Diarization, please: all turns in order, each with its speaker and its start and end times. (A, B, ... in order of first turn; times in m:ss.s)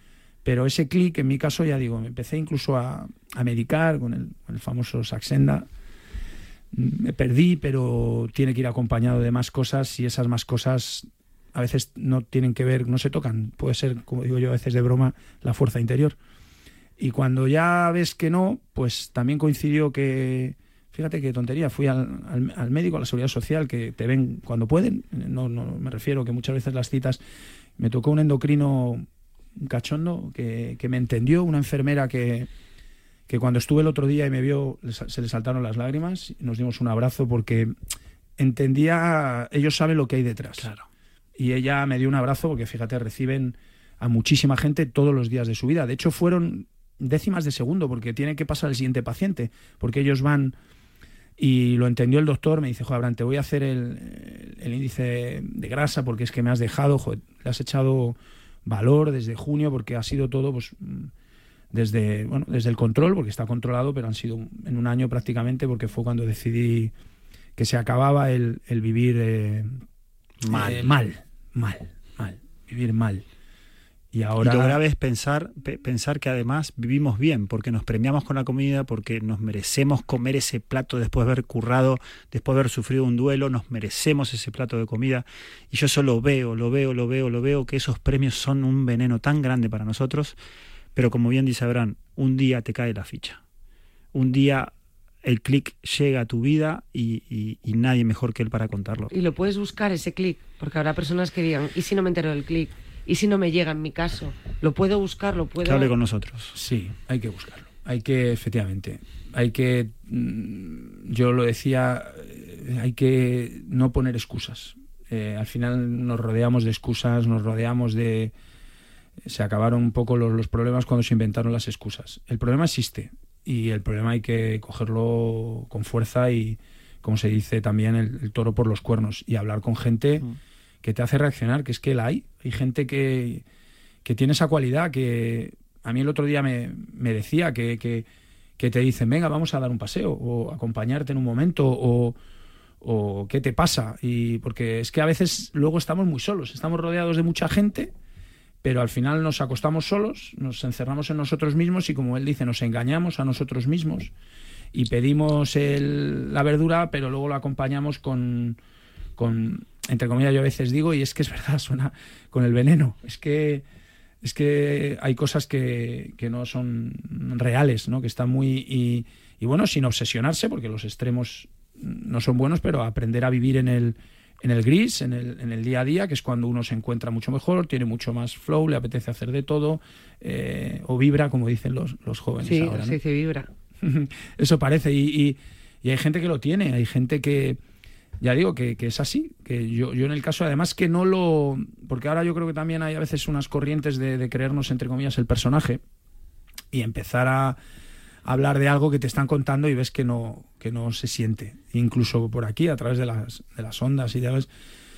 0:00.4-0:05.7 A
0:06.7-0:16.2 A
0:17.0-0:27.2 A
0:27.8-0:29.0 A
0:29.6-0:32.5 A
0:33.3-0:37.7 A
0:38.4-0:40.7 A
0:40.6-0:40.9 B
0:41.4-0:50.5 A
0:51.4-1:01.1 A
1:01.7-1:06.9 A
1:07.6-1:09.7 A
1:10.4-1:10.9 B
1:10.5-1:13.2 A
1:14.1-1:14.8 A
1:14.4-1:30.4 B
1:30.9-1:33.4 B
1:34.1-1:34.7 B
1:35.2-1:39.1 B
1:39.1-1:45.9 C
1:45.6-1:46.5 B
1:46.5-1:58.3 A
1:59.2-2:10.3 A
2:10.8-2:13.4 A
2:14.0-2:18.0 A
2:18.6-2:22.2 A
2:22.8-2:27.9 A
2:28.6-2:34.1 A
2:34.7-2:38.6 A
2:39.2-2:43.6 A
2:44.2-3:03.0 A
3:02.4-3:03.5 C
3:03.8-3:07.6 A
3:08.2-3:15.8 A
3:16.7-3:17.6 A
3:18.2-3:24.5 A